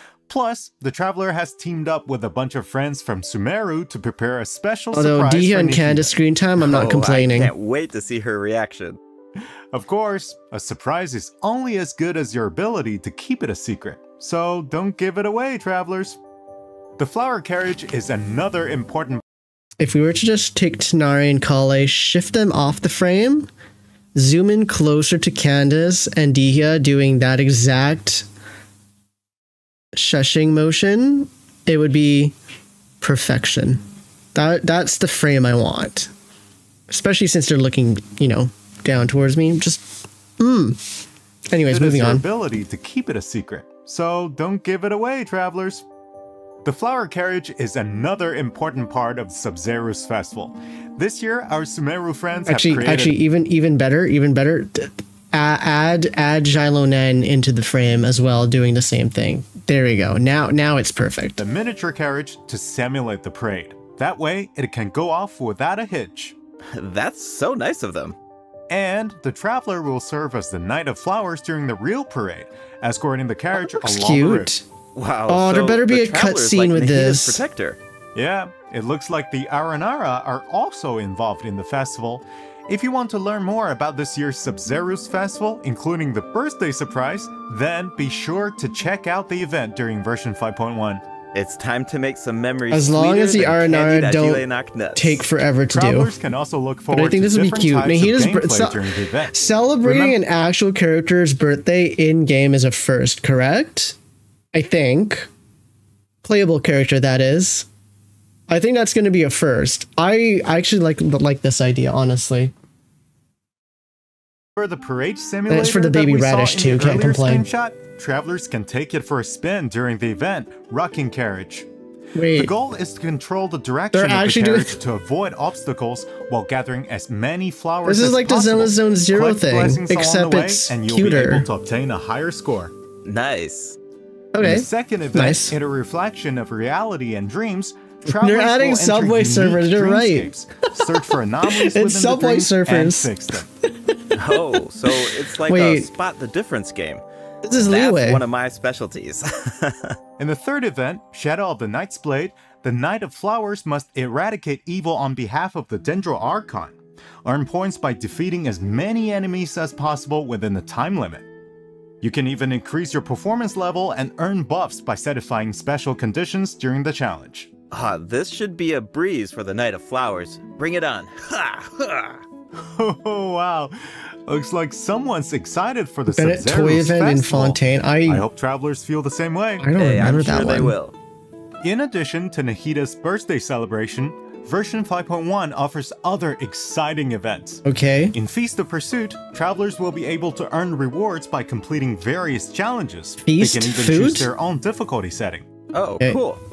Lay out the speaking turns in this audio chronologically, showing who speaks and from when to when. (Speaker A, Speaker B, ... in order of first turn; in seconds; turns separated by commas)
Speaker A: 0.3-6.2, Speaker B: 4.9-7.5, Speaker C: 6.6-9.0, Speaker A: 9.7-16.2, Speaker A: 17.0-19.2, Speaker B: 19.8-23.5, Speaker B: 24.1-28.3, Speaker B: 29.9-32.4, Speaker B: 33.0-33.8, Speaker B: 34.3-36.1, Speaker B: 36.9-40.8, Speaker B: 41.5-42.2, Speaker A: 41.7-45.8, Speaker A: 46.6-53.1, Speaker B: 52.4-61.4, Speaker A: 61.4-66.3, Speaker C: 66.7-68.2, Speaker A: 68.7-74.5, Speaker B: 73.5-74.6, Speaker C: 74.9-77.8, Speaker B: 75.3-77.4, Speaker A: 78.1-91.0, Speaker C: 91.3-95.2, Speaker B: 92.7-94.4, Speaker B: 95.0-96.1, Speaker A: 95.7-100.2, Speaker B: 96.9-104.0, Speaker B: 104.5-105.3, Speaker B: 106.2-107.7, Speaker B: 108.5-112.5, Speaker A: 114.5-121.7, Speaker B: 115.5-117.5, Speaker B: 122.1-122.5, Speaker A: 122.3-132.7, Speaker B: 123.9-124.8, Speaker B: 127.8-131.5, Speaker C: 133.0-133.8, Speaker B: 134.3-135.6, Speaker A: 134.4-143.5, Speaker B: 138.1-145.9, Speaker C: 144.1-147.0, Speaker B: 147.4-148.2, Speaker C: 147.6-150.0, Speaker A: 150.2-161.2, Speaker A: 162.0-167.5, Speaker C: 167.7-172.2, Speaker A: 172.6-179.7, Speaker B: 176.1-178.2, Speaker B: 179.6-180.7, Speaker C: 179.8-180.9, Speaker A: 181.6-187.6, Speaker B: 187.7-188.1, Speaker A: 188.1-195.4, Speaker B: 193.2-194.3, Speaker C: 195.7-196.4